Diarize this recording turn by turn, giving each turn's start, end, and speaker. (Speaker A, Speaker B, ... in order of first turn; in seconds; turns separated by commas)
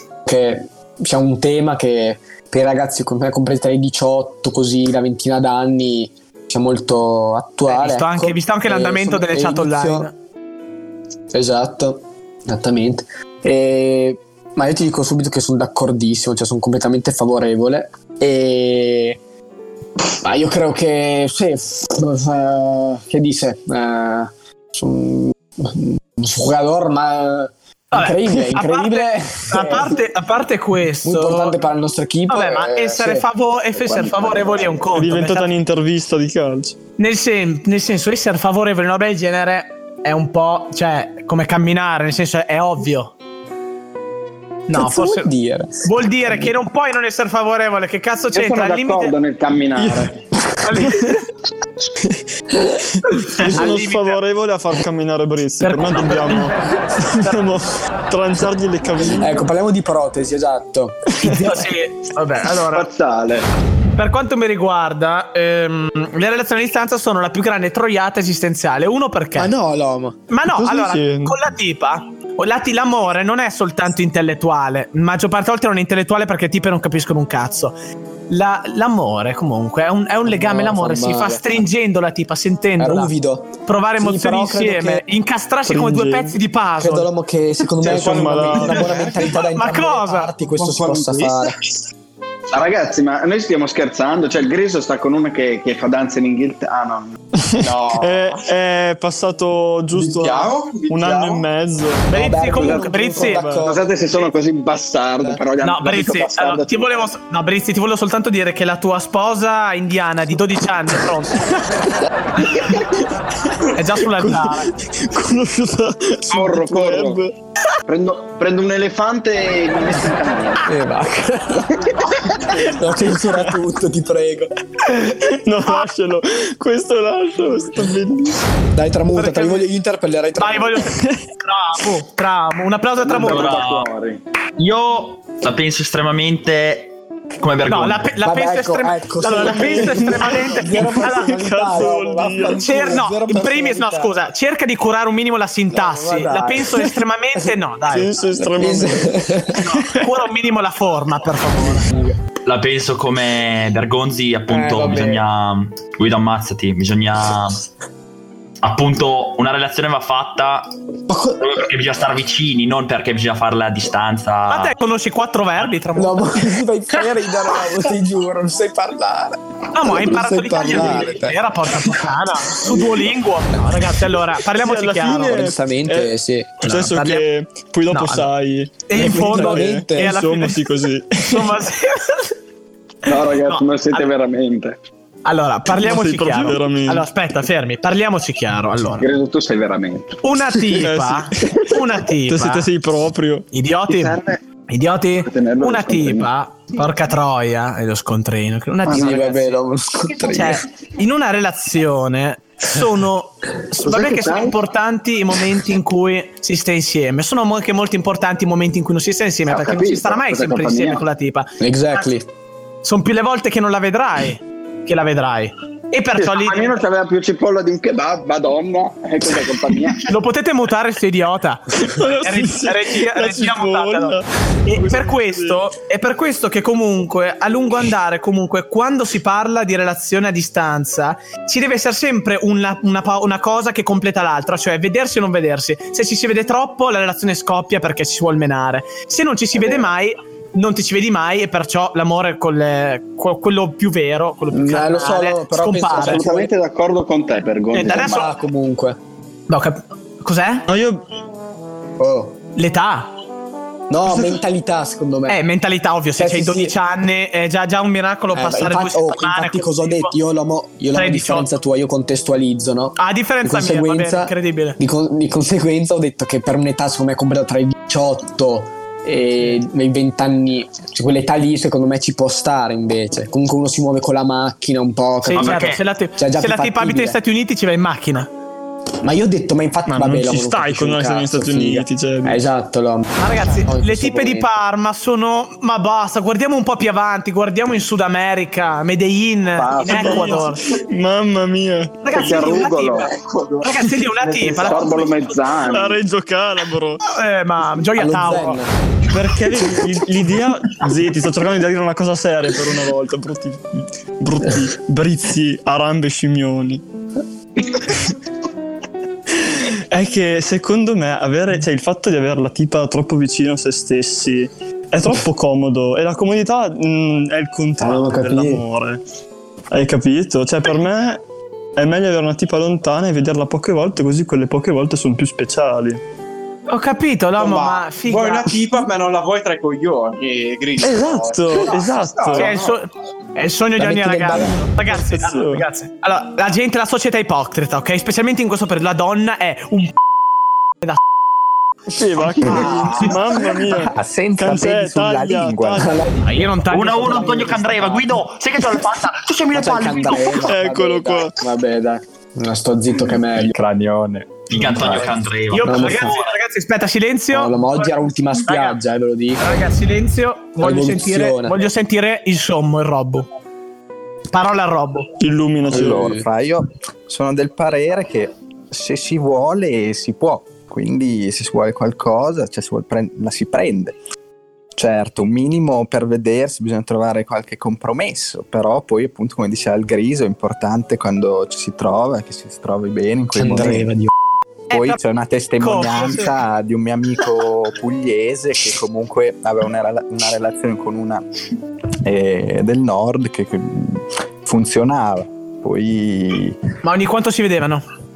Speaker A: 0.3-10.1, Speaker B: 7.7-10.1, Speaker A: 11.3-19.2, Speaker A: 20.1-30.0, Speaker B: 27.9-31.6, Speaker A: 31.0-33.3, Speaker B: 32.3-35.5, Speaker C: 33.8-34.9, Speaker D: 34.9-36.8, Speaker B: 37.0-43.1, Speaker B: 44.7-45.3, Speaker A: 44.7-46.5, Speaker B: 45.9-49.2, Speaker C: 48.3-50.2, Speaker D: 49.8-50.1, Speaker B: 50.6-51.2, Speaker D: 53.0-59.5, Speaker B: 53.5-54.2, Speaker B: 55.6-56.5, Speaker B: 57.2-57.5, Speaker A: 59.1-61.0, Speaker B: 61.2-62.9, Speaker D: 61.2-61.5, Speaker C: 62.7-63.5, Speaker B: 64.0-69.5, Speaker A: 69.3-70.2, Speaker B: 70.3-77.8, Speaker D: 70.5-71.4, Speaker B: 78.3-83.1, Speaker A: 80.3-81.6, Speaker A: 82.8-85.0, Speaker B: 83.7-87.1, Speaker D: 85.7-86.4, Speaker A: 86.8-91.6, Speaker D: 87.8-89.0, Speaker B: 88.8-90.3, Speaker C: 92.5-98.1, Speaker D: 97.4-102.2, Speaker E: 99.9-101.4, Speaker B: 102.1-103.4, Speaker A: 102.1-103.9, Speaker C: 102.6-107.1, Speaker D: 103.1-103.7, Speaker B: 105.6-111.4, Speaker D: 112.5-112.8, Speaker B: 113.8-114.7, Speaker D: 114.2-117.3, Speaker C: 116.3-117.2, Speaker C: 117.9-120.6, Speaker A: 120.7-121.8, Speaker A: 122.6-124.5, Speaker D: 123.2-123.5, Speaker D: 125.0-128.4, Speaker A: 128.7-130.8, Speaker B: 129.1-129.7, Speaker B: 130.4-133.6, Speaker C: 133.0-134.2, Speaker F: 133.2-133.9, Speaker F: 134.6-138.1, Speaker B: 137.7-141.9, Speaker A: 138.2-144.2, Speaker D: 139.3-143.0, Speaker B: 142.4-148.2, Speaker A: 145.7-146.7, Speaker D: 147.9-150.0, Speaker A: 148.4-149.8, Speaker B: 149.6-151.9, Speaker A: 151.6-152.2, Speaker F: 152.4-157.6, Speaker A: 154.5-155.3, Speaker F: 158.6-160.7, Speaker A: 161.1-161.6, Speaker F: 161.4-164.7, Speaker B: 164.5-166.5, Speaker A: 166.0-171.3, Speaker B: 169.7-175.5, Speaker G: 170.6-171.2, Speaker D: 174.5-181.6, Speaker A: 175.3-176.6, Speaker B: 176.6-177.2, Speaker B: 177.9-178.3, Speaker B: 178.9-180.7, Speaker A: 178.9-180.2, Speaker B: 181.3-182.3, Speaker C: 183.1-184.8, Speaker B: 183.4-184.1, Speaker B: 185.2-189.1, Speaker D: 185.8-187.1, Speaker C: 189.0-190.2, Speaker B: 190.2-192.7, Speaker D: 190.8-191.5, Speaker D: 192.2-193.5, Speaker B: 193.5-194.2, Speaker C: 193.9-194.4, Speaker B: 194.7-199.6, Speaker C: 195.2-196.3, Speaker A: 198.9-200.6, Speaker B: 200.3-212.1, Speaker C: 203.8-204.6, Speaker C: 209.5-211.0, Speaker A: 211.6-212.2, Speaker B: 212.8-216.8, Speaker C: 216.2-220.1, Speaker B: 220.1-246.2, Speaker D: 221.8-225.6, Speaker C: 239.6-239.8, Speaker A: 244.5-246.5, Speaker C: 246.0-248.3, Speaker B: 247.7-248.3, Speaker A: 247.8-249.0, Speaker B: 249.5-250.7, Speaker D: 250.7-251.1, Speaker A: 252.0-252.4, Speaker B: 252.6-253.1, Speaker A: 253.9-255.4, Speaker D: 254.1-254.4, Speaker B: 255.3-260.1, Speaker A: 256.2-256.8, Speaker A: 258.3-277.2, Speaker B: 260.9-261.6, Speaker B: 263.0-264.8, Speaker B: 275.2-278.3, Speaker F: 275.4-275.8, Speaker A: 279.0-284.5, Speaker D: 279.9-282.4, Speaker B: 283.2-290.6, Speaker C: 289.6-290.3, Speaker D: 289.8-292.1, Speaker B: 292.0-293.1, Speaker C: 292.1-293.1, Speaker B: 293.6-295.4, Speaker C: 294.5-296.0, Speaker D: 295.6-297.0, Speaker B: 297.0-298.6, Speaker A: 298.0-298.7, Speaker D: 299.1-306.8, Speaker D: 307.8-308.1, Speaker D: 309.3-319.0, Speaker A: 317.8-318.6, Speaker D: 319.7-321.2, Speaker D: 321.8-326.0, Speaker B: 326.7-328.6, Speaker E: 327.4-327.9, Speaker E: 328.6-332.3, Speaker D: 330.8-332.6, Speaker B: 332.3-339.9, Speaker A: 333.8-334.7, Speaker D: 334.9-335.6, Speaker D: 341.9-345.9, Speaker G: 342.4-345.9, Speaker A: 342.5-343.0, Speaker B: 342.6-343.1, Speaker A: 345.8-348.2, Speaker B: 346.2-347.6, Speaker F: 346.7-350.5, Speaker A: 349.5-353.5, Speaker D: 350.4-351.3, Speaker G: 353.4-355.2, Speaker F: 354.5-356.3, Speaker B: 355.5-357.6, Speaker A: 355.6-356.1, Speaker A: 357.3-359.6, Speaker B: 358.5-358.8, Speaker B: 359.4-363.3, Speaker A: 360.6-361.7, Speaker B: 364.3-365.1, Speaker D: 365.2-366.1, Speaker A: 365.7-366.2, Speaker G: 365.7-374.0, Speaker G: 374.8-383.9, Speaker A: 383.4-384.1, Speaker B: 384.7-385.0, Speaker G: 384.7-391.2, Speaker B: 385.6-386.4, Speaker G: 392.0-396.6, Speaker B: 396.8-397.8